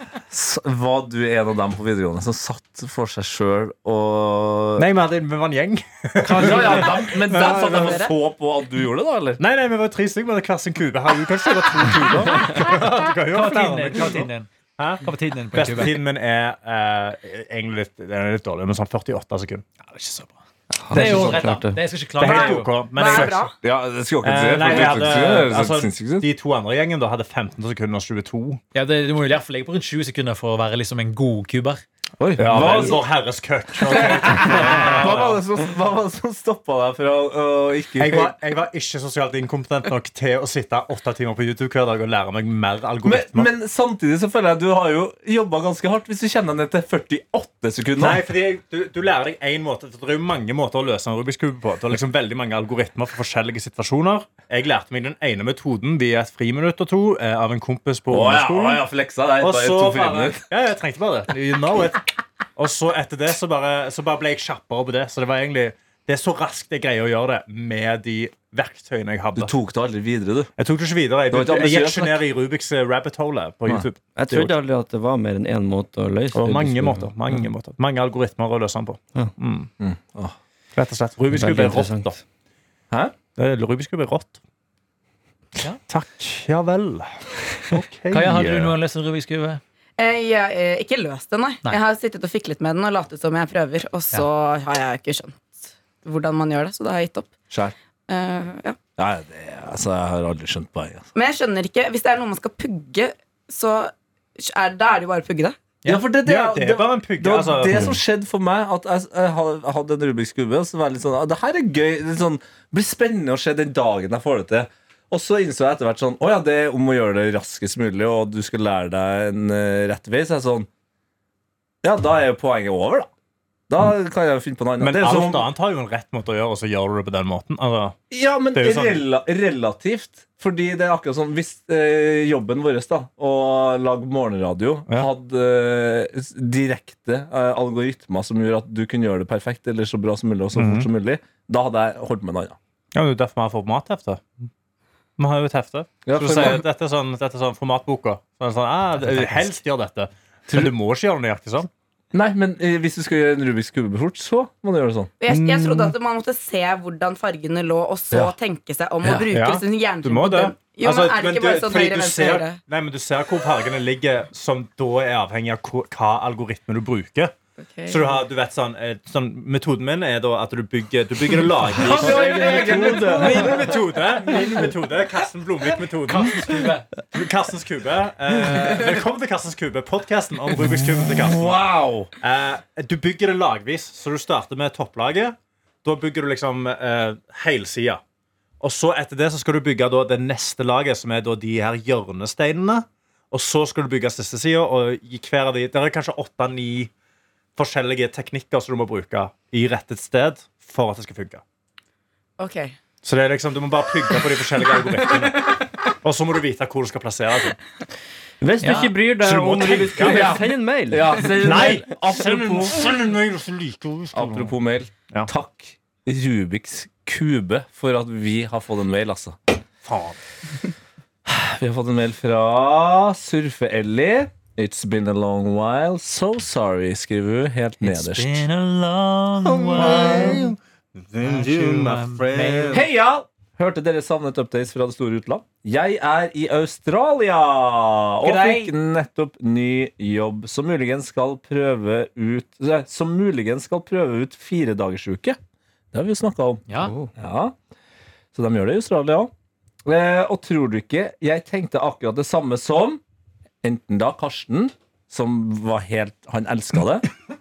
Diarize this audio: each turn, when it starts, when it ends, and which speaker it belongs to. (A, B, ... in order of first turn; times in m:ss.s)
0:00.3-0:04.9 A
0:04.8-0:08.1 B
0:06.3-0:09.4 A
0:06.3-0:06.9 C
0:07.3-0:08.1 D
0:09.4-0:19.7 B
0:13.3-0:14.5 C
0:15.0-0:16.0 C
0:19.8-0:20.4 C
0:20.7-0:21.8 E
0:20.9-0:22.7 C
0:20.9-0:21.6 A
0:22.2-0:23.5 B
0:22.3-0:23.5 D
0:23.1-0:26.3 A
0:24.2-0:28.6 B
0:28.7-0:31.8 C
0:32.2-0:33.0 A
0:32.4-0:35.4 B
0:32.4-0:33.0 C
0:33.9-0:38.4 A
0:38.0-0:43.5 B
0:43.0-0:48.2 A
0:48.0-0:58.9 B
0:58.1-1:00.4 A
0:59.4-1:09.5 B
1:09.4-1:10.5 A
1:10.6-1:14.5 B
1:11.3-1:12.2 A
1:14.2-1:17.1 E
1:16.3-1:19.7 B
1:19.8-1:20.4 A
1:20.8-1:22.2 B
1:21.3-1:22.1 E
1:23.4-1:24.4 B
1:25.9-1:28.8 B
1:28.1-1:29.6 C
1:28.1-1:28.5 A
1:30.0-1:37.3 D
1:37.5-1:37.8 A
1:38.1-1:38.8 D
1:39.0-1:41.1 A
1:41.2-1:45.6 D
1:45.8-2:00.7 A
1:46.2-1:47.9 B
2:01.8-2:03.1 A
2:03.7-2:05.5 A
2:04.8-2:08.0 B
2:08.1-2:22.6 A
2:08.5-2:09.0 B
2:20.5-2:20.9 B
2:22.9-2:24.2 B
2:25.2-2:31.7 B
2:26.1-2:26.6 A
2:32.1-2:35.1 A
2:35.2-2:42.6 D
2:39.3-2:47.3 B
2:47.6-2:48.2 D
2:47.9-3:01.6 B
2:51.8-2:53.3 C
2:51.8-2:53.9 A
2:56.1-2:56.9 C
3:00.6-3:02.1 A
3:02.2-3:08.0 B
3:08.6-3:16.9 B
3:17.6-3:21.4 B
3:22.4-3:22.8 D
3:23.0-3:27.6 B
3:28.4-3:31.8 E
3:28.6-3:29.0 C
3:29.2-3:30.4 B
3:30.0-3:32.8 A
3:31.4-3:34.6 B
3:34.1-3:39.4 A
3:39.8-3:40.2 B
3:41.3-3:48.4 A
3:47.8-3:50.5 C
3:49.4-3:52.8 B
3:49.8-3:50.3 A
3:51.2-3:52.8 C
3:52.7-4:05.4 A
3:58.2-3:58.7 C
4:05.9-4:07.6 A
4:06.7-4:06.9 C
4:06.8-4:07.1 E
4:08.3-4:09.3 A
4:09.8-4:13.0 A
4:13.6-4:17.1 A